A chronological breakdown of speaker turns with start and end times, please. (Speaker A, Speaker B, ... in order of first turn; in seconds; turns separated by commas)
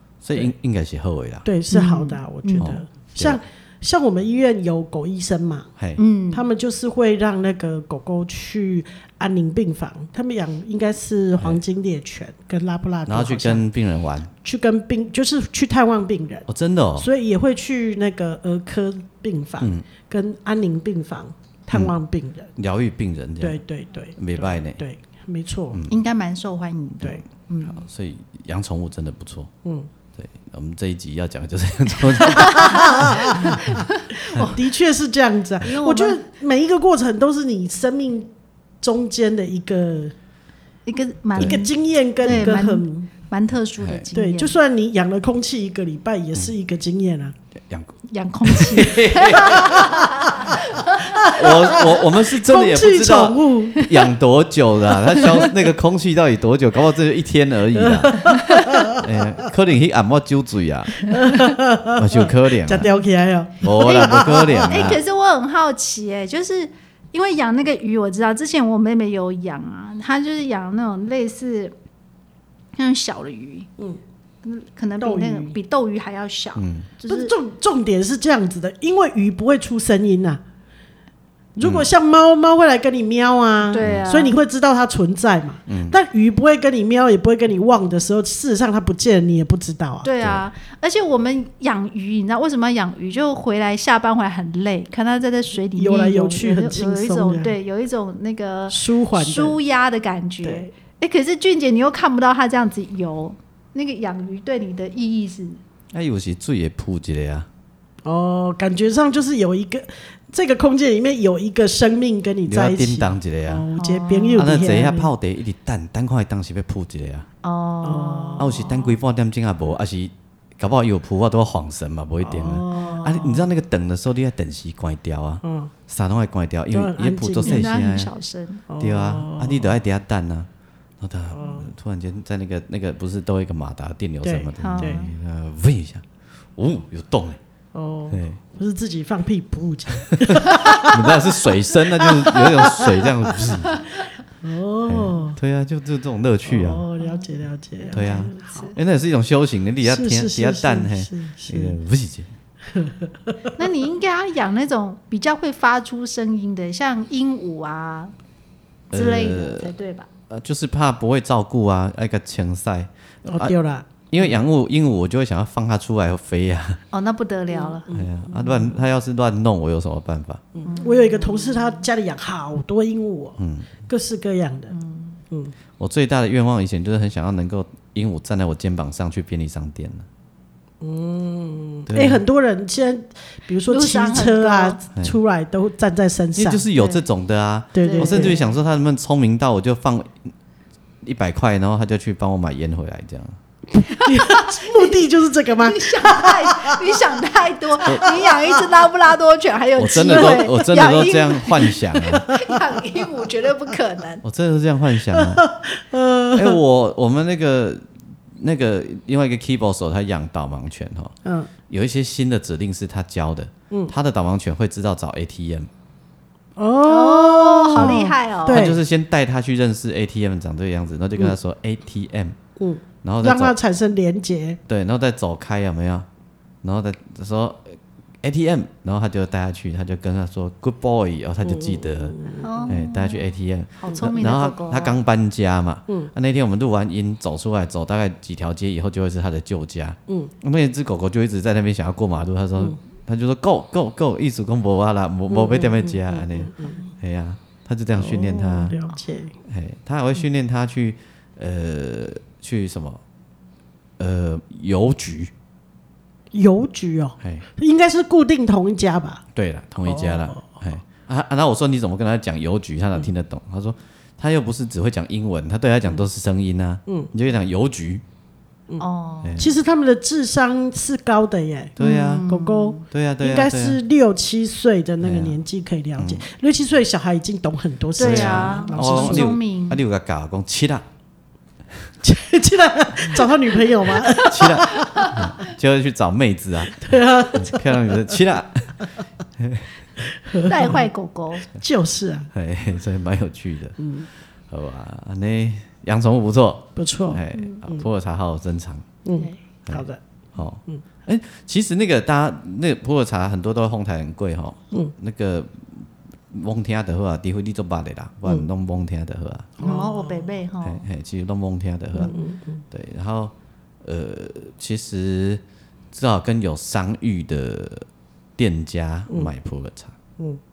Speaker A: 0.2-1.5, Speaker B: 1.4-5.7, Speaker C: 1.7-2.8, Speaker A: 2.6-3.4, Speaker C: 6.0-6.5, Speaker B: 6.3-13.6, Speaker A: 13.1-14.3, Speaker B: 14.4-22.5, Speaker A: 16.5-17.1, Speaker A: 22.6-23.6, Speaker B: 23.4-25.8, Speaker A: 24.2-24.8, Speaker C: 25.9-27.8, Speaker A: 27.7-29.5, Speaker A: 30.1-33.9, Speaker C: 32.2-34.6, Speaker B: 32.4-33.7, Speaker B: 34.4-38.3, Speaker C: 35.6-36.2, Speaker B: 38.8-40.1, Speaker C: 40.9-44.5, Speaker B: 41.4-43.1, Speaker A: 42.3-42.5, Speaker A: 43.8-44.1, Speaker B: 44.1-47.4, Speaker A: 47.6-47.9, Speaker C: 48.1-51.4, Speaker A: 48.5-50.0, Speaker B: 49.5-50.6, Speaker B: 51.1-53.8, Speaker A: 51.2-61.1, Speaker C: 53.8-54.0, Speaker B: 57.8-59.1, Speaker C: 58.3-59.0, Speaker B: 61.1-64.9, Speaker C: 61.1-61.5, Speaker A: 61.9-62.9, Speaker A: 63.6-65.0, Speaker C: 63.8-71.7, Speaker C: 72.8-73.7, Speaker C: 74.4-77.3, Speaker B: 75.0-75.6, Speaker A: 76.6-76.9, Speaker B: 77.1-80.4, Speaker B: 81.6-90.1, Speaker A: 81.6-81.9, Speaker C: 83.6-84.4, Speaker A: 83.8-84.1, Speaker A: 85.7-86.0, Speaker C: 90.0-105.6, Speaker B: 95.8-97.5, Speaker B: 98.7-99.6, Speaker A: 105.9-107.5, Speaker B: 108.0-115.1, Speaker A: 112.5-113.7, Speaker C: 113.8-114.6, Speaker A: 114.4-117.3, Speaker C: 117.4-118.9, Speaker B: 117.8-118.5, Speaker A: 118.4-128.1, Speaker B: 122.2-123.5, Speaker B: 125.4-125.7, Speaker B: 126.7-127.8, Speaker C: 127.5-128.6, Speaker B: 128.7-129.7, Speaker A: 128.8-130.5, Speaker A: 131.0-136.1, Speaker B: 131.3-131.7, Speaker B: 134.2-135.1, Speaker C: 134.6-135.1, Speaker A: 136.6-137.4, Speaker B: 137.7-141.3, Speaker A: 138.1-138.4, Speaker A: 140.0-143.8, Speaker B: 142.0-143.6, Speaker C: 143.7-144.1, Speaker B: 144.4-145.4, Speaker A: 144.9-146.8, Speaker B: 146.5-148.6, Speaker C: 147.0-148.8, Speaker A: 147.9-152.3, Speaker B: 149.8-151.8, Speaker B: 152.7-153.5, Speaker C: 153.6-158.1, Speaker A: 158.9-159.7, Speaker C: 158.9-160.1, Speaker A: 160.3-163.6, Speaker B: 163.2-164.3, Speaker A: 164.1-166.8, Speaker C: 166.9-167.9, Speaker B: 167.5-168.6, Speaker A: 167.9-170.4, Speaker B: 170.6-174.7, Speaker C: 170.6-171.9, Speaker A: 173.4-173.7, Speaker C: 174.7-175.2, Speaker A: 175.8-180.1, Speaker B: 180.8-186.6, Speaker A: 181.9-182.2, Speaker C: 183.7-184.8, Speaker A: 186.4-190.3, Speaker C: 186.8-187.0, Speaker B: 187.8-188.4, Speaker C: 187.8-188.5, Speaker A: 191.0-193.4, Speaker B: 193.8-197.0, Speaker C: 193.9-195.0, Speaker C: 195.6-204.2, Speaker B: 197.9-198.7, Speaker A: 199.8-202.3, Speaker B: 200.0-200.6, Speaker B: 202.1-202.6, Speaker A: 204.2-205.4, Speaker B: 205.1-206.6, Speaker A: 206.3-207.8, Speaker A: 208.4-211.1, Speaker B: 211.2-211.5, Speaker A: 211.7-215.7, Speaker B: 216.6-218.8, Speaker C: 216.9-218.7, Speaker A: 217.8-222.4, Speaker B: 222.6-224.6, Speaker A: 223.0-223.6, Speaker A: 224.7-226.1, Speaker A: 226.6-232.2, Speaker B: 231.4-232.8, Speaker C: 232.4-235.0, Speaker A: 232.7-248.8, Speaker B: 240.1-240.3, Speaker B: 245.3-246.7, Speaker B: 247.9-249.3, Speaker A: 249.4-253.0, Speaker A: 254.0-255.3, Speaker B: 256.3-259.2, Speaker A: 259.4-268.0, Speaker B: 259.9-260.6, Speaker C: 268.8-269.4, Speaker A: 269.2-269.6, Speaker B: 269.4-279.3, Speaker A: 271.8-272.3, Speaker C: 271.8-272.8, Speaker A: 272.9-273.8, Speaker A: 275.0-275.4, Speaker A: 276.0-276.3, Speaker C: 278.0-279.8, Speaker A: 278.0-280.8, Speaker B: 282.0-285.2, Speaker C: 284.0-285.2, Speaker A: 284.2-289.7, Speaker B: 286.8-287.9, Speaker B: 290.2-290.8, Speaker C: 290.5-291.4, Speaker B: 291.6-292.3, Speaker A: 292.3-293.8, Speaker B: 293.8-294.1, Speaker A: 294.5-298.9, Speaker B: 296.8-297.8, Speaker C: 297.3-297.6, Speaker B: 299.1-300.0, Speaker A: 299.7-309.5, Speaker B: 309.6-310.3, Speaker C: 309.6-310.8, Speaker A: 310.6-312.2, Speaker B: 312.0-312.6, Speaker A: 312.7-319.9